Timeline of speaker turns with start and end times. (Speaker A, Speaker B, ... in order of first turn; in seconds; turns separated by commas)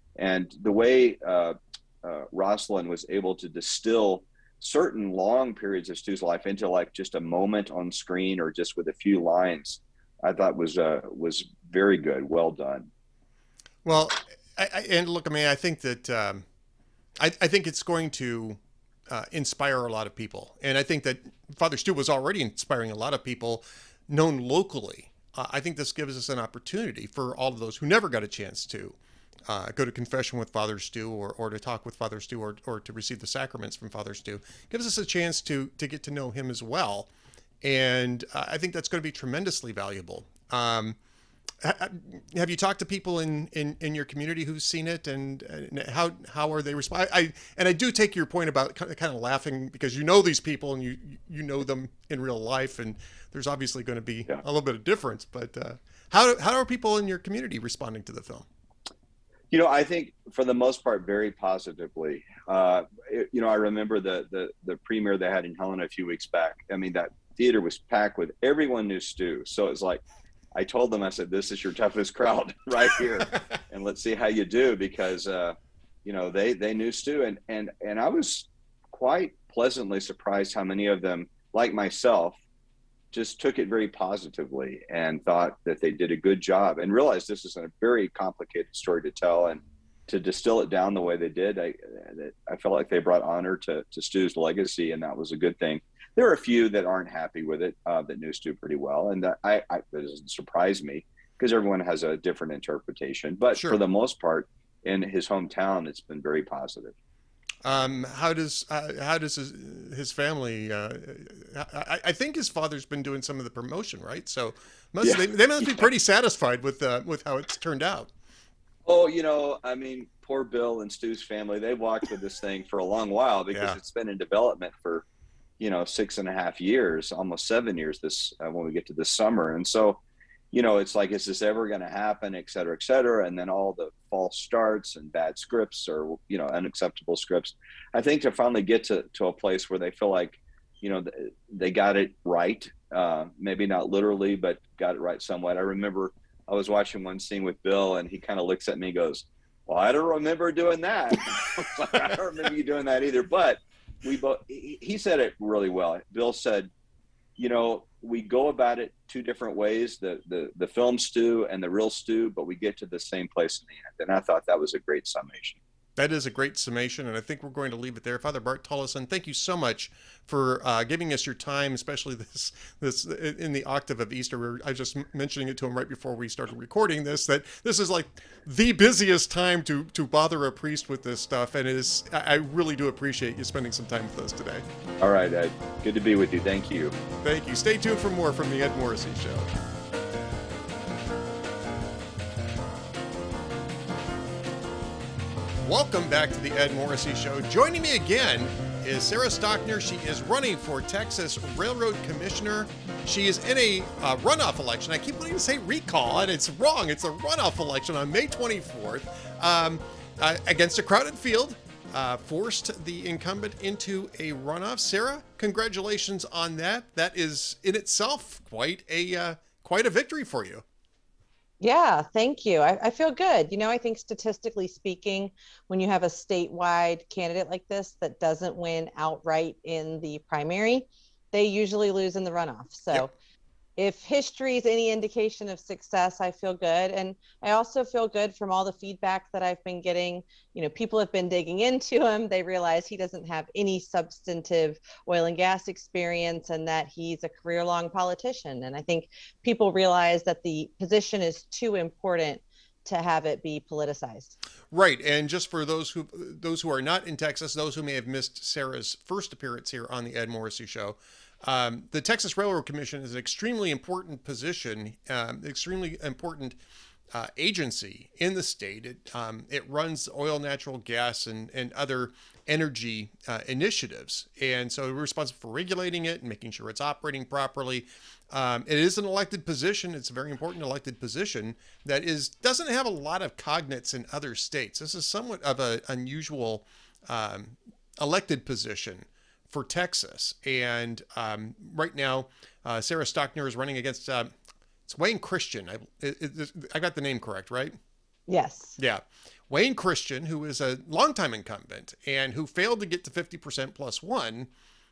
Speaker A: 0.2-12.9, Speaker B: 13.8-16.4, Speaker B: 17.2-37.1, Speaker B: 37.6-41.0, Speaker B: 41.6-58.5, Speaker A: 59.5-70.0, Speaker A: 70.5-82.4, Speaker A: 83.1-107.0, Speaker B: 103.5-103.8, Speaker B: 107.6-118.1, Speaker A: 115.0-115.9, Speaker A: 118.9-125.1, Speaker B: 123.5-123.8, Speaker A: 125.6-130.0, Speaker A: 130.5-156.7, Speaker A: 157.4-165.6, Speaker B: 166.0-184.7, Speaker A: 185.0-187.0, Speaker B: 187.2-189.5, Speaker B: 195.6-220.6, Speaker C: 221.6-233.1, Speaker C: 233.8-254.3, Speaker B: 254.7-266.6, Speaker B: 267.1-294.3, Speaker B: 294.9-297.8, Speaker C: 298.3-298.8, Speaker B: 298.8-304.5